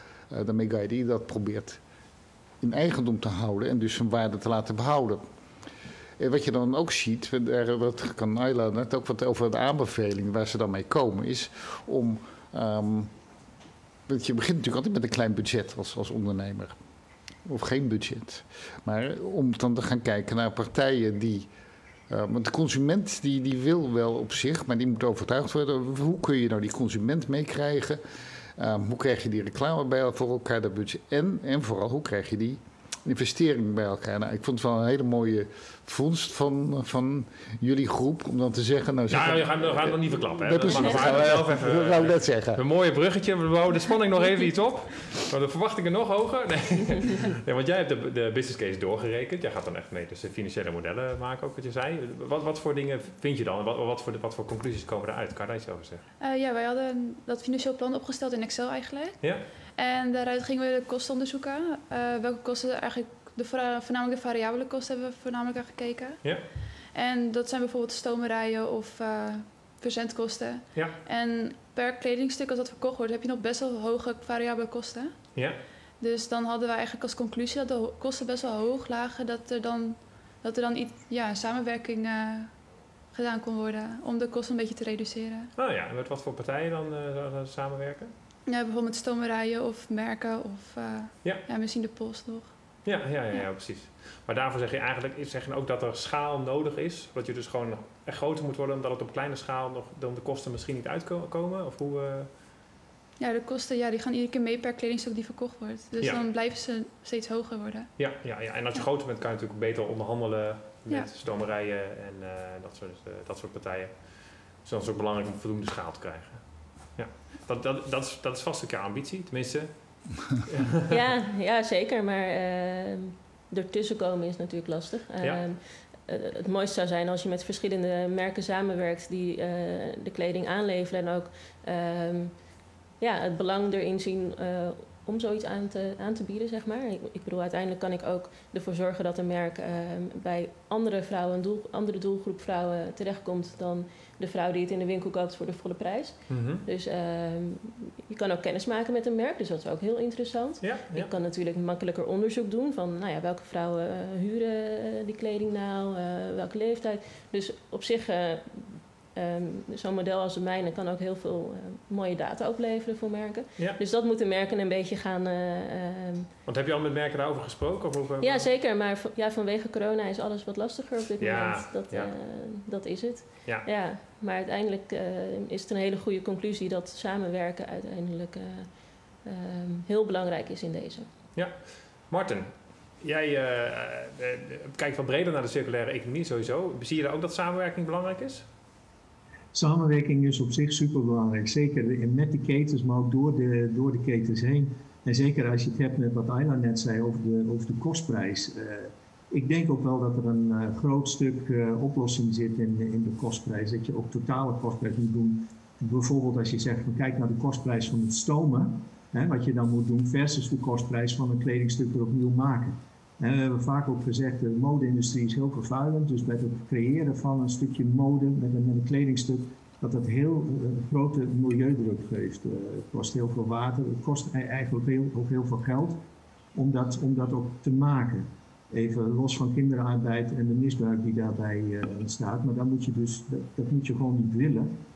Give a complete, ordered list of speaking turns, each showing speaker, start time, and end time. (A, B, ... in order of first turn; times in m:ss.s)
0:00.3-0:01.8 A
0:02.6-0:05.2 A
0:06.2-0:13.1 A
0:14.1-0:16.8 A
0:17.4-0:21.5 A
0:22.1-0:28.0 A
0:28.6-0:42.6 A
0:39.1-0:56.0 B
0:56.2-1:06.2 C
1:06.9-1:15.2 C
1:16.0-1:22.6 C
1:23.1-1:25.5 C
1:25.6-1:28.1 B
1:28.5-1:32.5 C
1:32.8-1:42.3 B
1:43.2-1:47.9 C
1:46.0-1:46.3 B
1:48.0-2:01.0 B
2:00.9-2:46.3 D
2:26.3-2:26.6 B
2:30.6-2:31.1 B
2:46.5-2:48.5 B
2:48.2-3:01.1 D
2:51.2-2:52.1 B
3:01.4-3:08.5 B
3:09.5-3:46.0 E
3:46.6-3:54.7 E